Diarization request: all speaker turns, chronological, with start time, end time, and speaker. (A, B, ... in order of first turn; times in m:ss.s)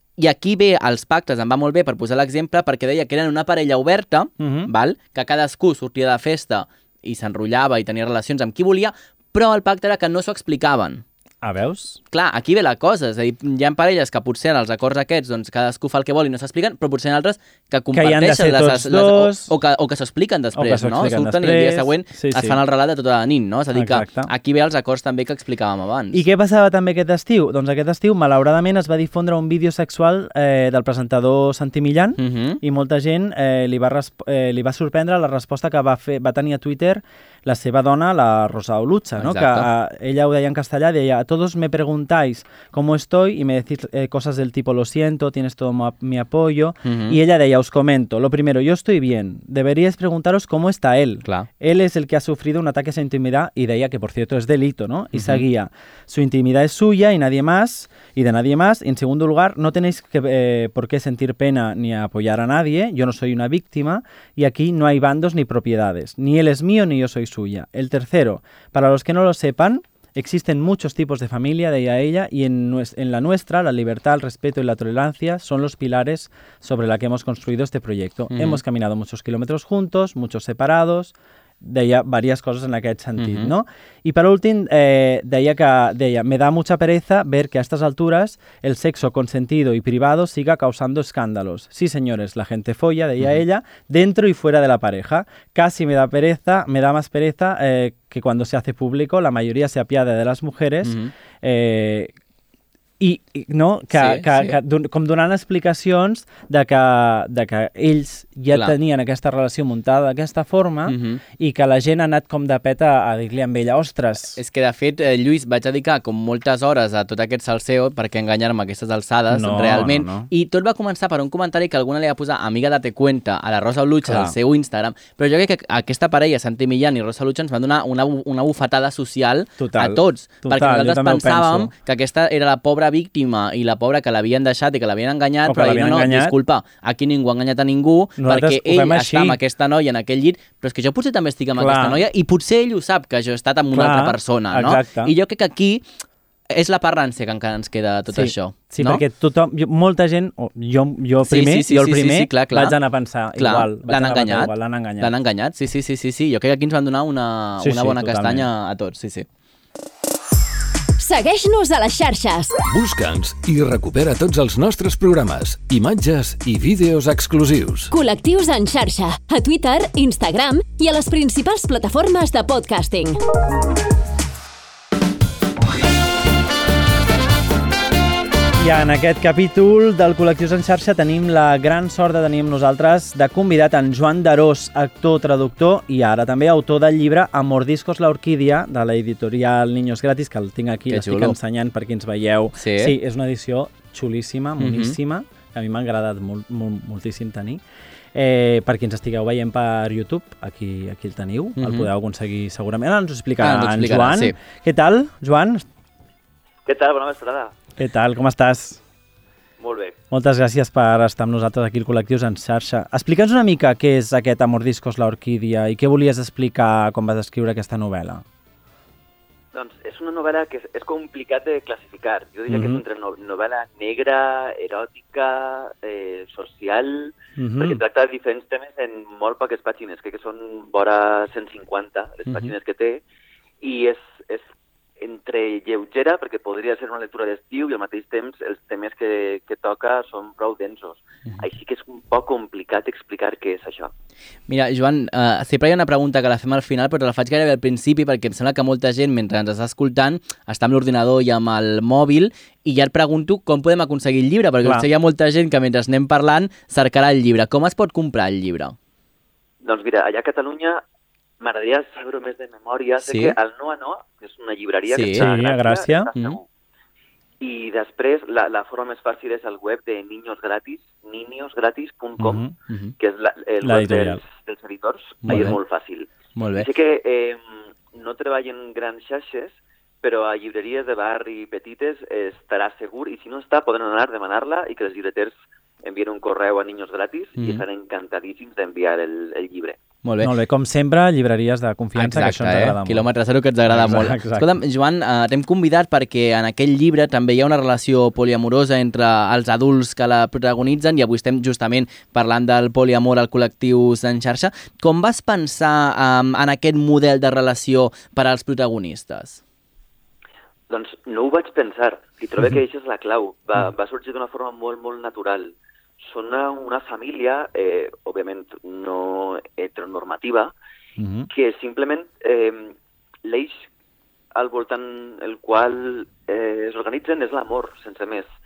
0:00.2-0:11.0 A
0:04.4-0:04.7 B
0:11.4-0:12.0 B
0:12.1-0:26.2 A
0:17.9-0:19.5 B
0:20.5-0:22.6 B
0:23.7-0:24.3 B
0:26.1-1:42.1 B
0:32.2-0:32.6 A
0:39.2-0:39.7 A
0:46.8-0:47.2 A
0:55.1-0:55.4 A
1:18.3-1:18.6 A
1:23.2-1:23.5 A
1:40.8-1:41.1 A
1:43.0-1:54.4 B
1:43.9-1:44.5 A
1:50.9-1:51.2 A
1:54.4-2:25.8 A
1:59.3-2:00.3 B
2:04.0-2:04.3 B
2:09.6-2:11.7 B
2:15.4-2:16.3 B
2:18.2-2:19.4 B
2:21.6-2:22.0 B
2:23.7-2:25.1 B
2:26.5-2:29.0 A
2:28.1-2:35.1 B
2:31.2-2:32.8 A
2:33.4-2:39.2 A
2:37.6-2:38.5 B
2:41.0-2:42.5 C
2:42.7-2:47.9 D
2:47.9-2:53.2 C
2:58.6-3:17.6 B
3:10.9-3:11.3 A
3:12.6-3:12.9 A
3:14.6-3:14.9 A
3:18.1-3:25.6 B
3:21.6-3:21.9 A
3:23.4-3:24.4 A
3:26.6-3:27.5 E
3:27.8-3:28.8 B
3:29.6-3:30.0 E
3:30.1-3:38.2 B
3:39.5-3:53.0 E
3:42.5-3:42.8 B
3:47.4-3:47.8 B
3:52.3-3:52.5 A
3:53.6-3:54.5 E
3:55.0-4:03.9 E
4:04.5-4:18.7 A
4:19.6-4:20.8 E
4:21.4-4:26.4 E
4:23.0-4:23.3 A
4:24.9-4:25.3 A
4:25.1-4:26.1 B
4:27.4-4:32.4 E
4:32.2-4:32.5 B
4:32.7-4:32.9 A
4:33.0-4:37.4 E
4:33.6-4:34.2 B
4:35.2-4:35.6 B
4:35.3-4:35.6 A
4:36.4-4:36.7 A
4:37.9-4:49.8 E
4:47.4-4:47.6 A
4:50.0-4:50.3 A
4:50.2-4:53.1 B
4:52.0-5:09.4 A
4:53.7-4:54.5 B
5:10.7-5:20.5 E
5:21.0-5:21.3 B
5:21.3-5:23.6 E
5:24.3-5:28.3 E